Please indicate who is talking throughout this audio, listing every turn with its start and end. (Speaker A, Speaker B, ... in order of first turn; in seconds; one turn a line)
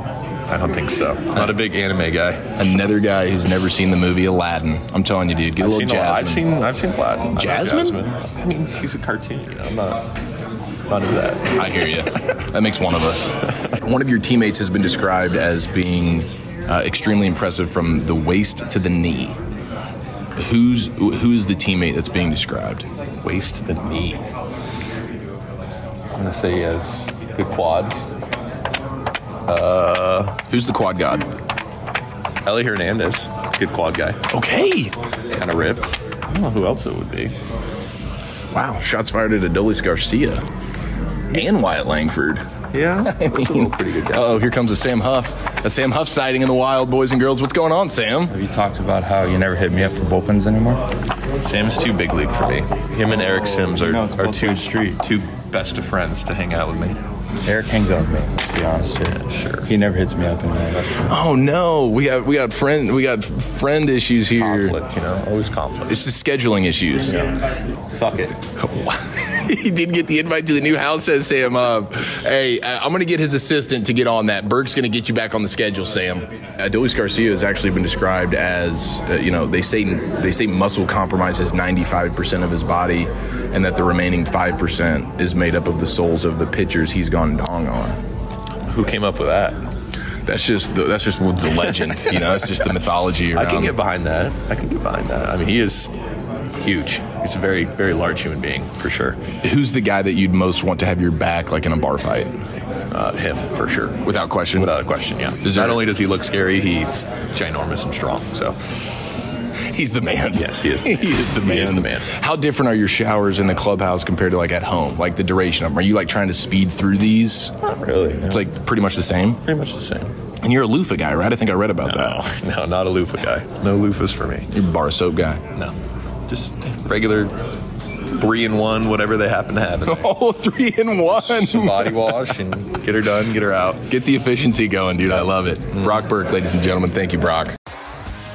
Speaker A: 0.5-2.5
Speaker B: 2.6-6.5
Speaker A: 5.6-10.0
Speaker B: 7.3-8.0
Speaker A: 10.9-11.7
Speaker B: 11.5-19.4
Speaker B: 20.4-22.9
Speaker A: 23.2-24.2
Speaker A: 26.1-28.1
Speaker A: 29.4-30.4
Speaker B: 30.5-31.3
Speaker A: 32.4-34.2
Speaker B: 34.3-35.0
Speaker A: 35.3-37.4
Speaker B: 38.5-40.4
Speaker B: 41.3-42.4
Speaker A: 42.7-44.4
Speaker B: 43.0-48.3
Speaker C: 48.3-50.8
Speaker A: 51.4-57.0
Speaker C: 53.8-55.0
Speaker C: 57.4-60.9
Speaker A: 59.0-59.7
Speaker B: 61.0-64.8
Speaker A: 64.3-66.0
Speaker B: 65.9-67.2
Speaker A: 67.0-68.4
Speaker B: 68.6-88.0
Speaker A: 88.6-89.6
Speaker B: 90.2-93.8
Speaker A: 93.3-95.9
Speaker A: 96.6-99.2
Speaker B: 99.4-102.4
Speaker A: 102.9-108.6
Speaker B: 104.0-104.7
Speaker B: 105.4-105.8
Speaker B: 109.7-117.5
Speaker A: 110.3-112.1
Speaker A: 117.6-118.5
Speaker B: 118.3-119.4
Speaker A: 119.4-120.1
Speaker B: 120.4-122.2
Speaker A: 121.8-124.5
Speaker B: 124.5-125.4
Speaker A: 126.3-127.4
Speaker A: 128.1-130.1
Speaker B: 129.8-132.3
Speaker A: 131.0-133.8
Speaker B: 133.9-137.5
Speaker A: 135.7-136.0